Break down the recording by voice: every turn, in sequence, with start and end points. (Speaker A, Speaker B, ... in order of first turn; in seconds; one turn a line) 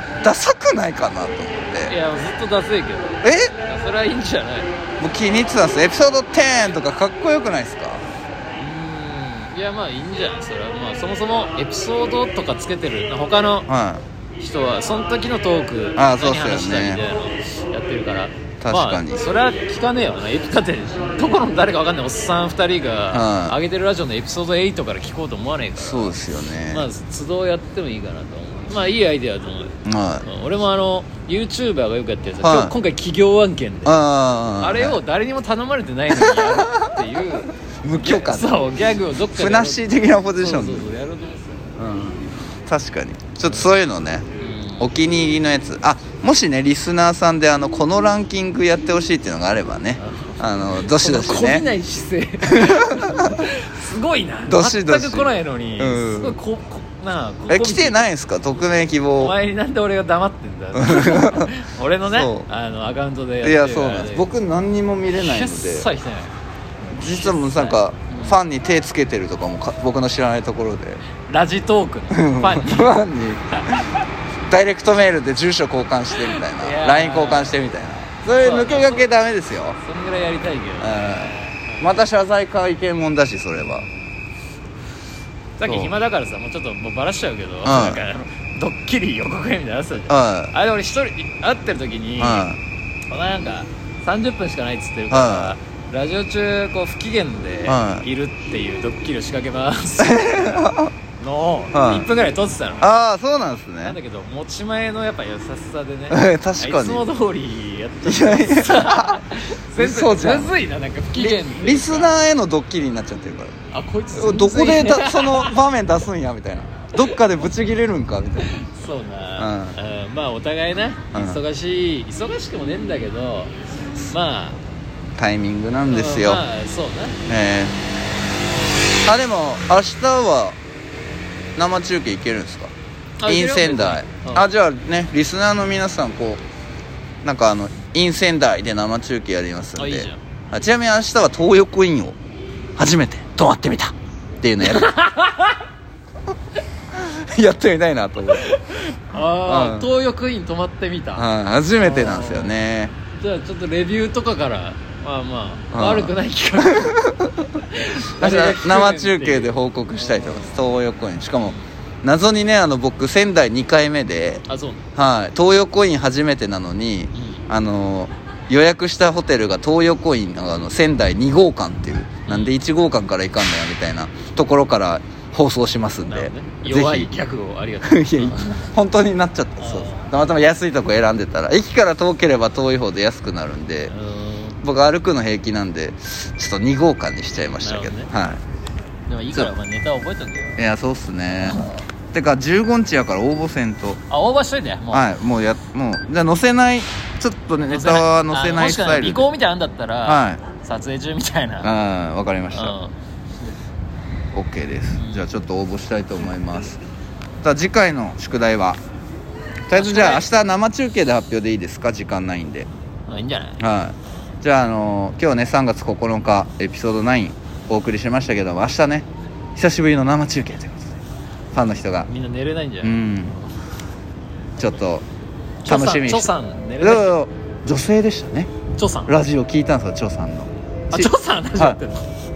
Speaker A: 0.2-1.9
Speaker B: 1.9-4.7
Speaker A: 3.2-3.5
Speaker A: 5.0-8.1
Speaker B: 8.6-13.7
Speaker A: 13.7-14.0
Speaker B: 14.4-34.0
Speaker A: 15.9-17.0
Speaker A: 18.6-19.2
Speaker A: 23.1-23.6
Speaker A: 25.8-26.9
Speaker A: 29.9-30.3
Speaker A: 32.4-32.8
Speaker A: 33.9-35.0
Speaker B: 34.6-41.8
Speaker A: 36.1-36.9
Speaker A: 37.8-38.6
Speaker A: 39.3-40.9
Speaker A: 41.8-44.2
Speaker B: 44.4-44.9
Speaker A: 44.8-51.7
Speaker B: 50.0-58.4
Speaker A: 52.5-53.5
Speaker A: 54.5-56.4
Speaker A: 57.5-59.4
Speaker B: 59.2-64.3
Speaker A: 60.8-61.5
Speaker A: 62.1-62.5
Speaker A: 63.4-65.9
Speaker B: 65.1-66.3
Speaker B: 66.9-68.4
Speaker A: 66.9-71.0
Speaker B: 71.2-73.0
Speaker A: 72.1-73.9
Speaker B: 73.5-73.9
Speaker A: 74.5-79.8
Speaker B: 76.2-77.5
Speaker B: 78.2-79.1
Speaker B: 79.8-81.9
Speaker A: 80.8-83.9
Speaker B: 83.6-84.0
Speaker B: 85.6-92.5
Speaker A: 85.6-85.9
Speaker A: 87.6-88.0
Speaker A: 90.1-90.5
Speaker A: 92.2-92.6
Speaker B: 93.1-102.9
Speaker A: 95.1-95.5
Speaker A: 97.7-98.0
Speaker A: 100.0-100.9
Speaker A: 101.7-102.1
Speaker A: 102.8-104.0
Speaker B: 103.8-112.2
Speaker A: 106.1-107.1
Speaker A: 108.0-110.5
Speaker A: 111.2-113.5
Speaker B: 113.7-115.6
Speaker A: 114.1-118.6
Speaker B: 118.5-124.6
Speaker A: 119.4-119.8
Speaker A: 121.1-121.4
Speaker A: 125.2-126.4
Speaker B: 125.9-127.2
Speaker A: 127.2-127.8
Speaker A: 129.0-130.6
Speaker A: 131.6-132.7
Speaker B: 133.2-134.5
Speaker A: 133.2-136.4
Speaker A: 137.2-142.2
Speaker B: 139.8-140.2
Speaker A: 142.8-144.9
Speaker B: 144.7-145.6
Speaker A: 147.0-148.5
Speaker B: 148.4-152.6
Speaker A: 149.4-149.9
Speaker A: 151.2-152.9
Speaker B: 153.1-157.1
Speaker A: 155.7-157.4
Speaker B: 157.7-160.6
Speaker A: 158.2-164.4
Speaker B: 164.5-164.8
Speaker A: 165.0-177.1
Speaker B: 167.1-167.4
Speaker B: 172.2-172.5
Speaker B: 176.1-178.7
Speaker A: 177.8-183.9
Speaker B: 179.6-180.1
Speaker B: 183.9-184.6
Speaker A: 184.6-188.4
Speaker B: 187.6-188.1
Speaker B: 189.1-190.6
Speaker A: 190.6-194.0
Speaker B: 191.3-191.8
Speaker B: 194.1-195.1
Speaker A: 194.9-199.3
Speaker B: 197.7-201.7
Speaker A: 200.0-200.4
Speaker A: 201.6-202.8
Speaker B: 202.5-202.9
Speaker A: 204.3-206.8
Speaker B: 205.0-205.3
Speaker A: 207.4-208.8
Speaker A: 209.7-212.7
Speaker B: 209.7-210.2
Speaker B: 213.1-213.6
Speaker A: 213.6-221.0
Speaker A: 221.5-222.1
Speaker B: 222.1-222.9
Speaker A: 222.8-223.4
Speaker A: 224.6-225.0
Speaker B: 225.6-227.1
Speaker A: 225.7-228.5
Speaker B: 228.8-229.1
Speaker A: 229.1-231.8
Speaker B: 230.9-232.1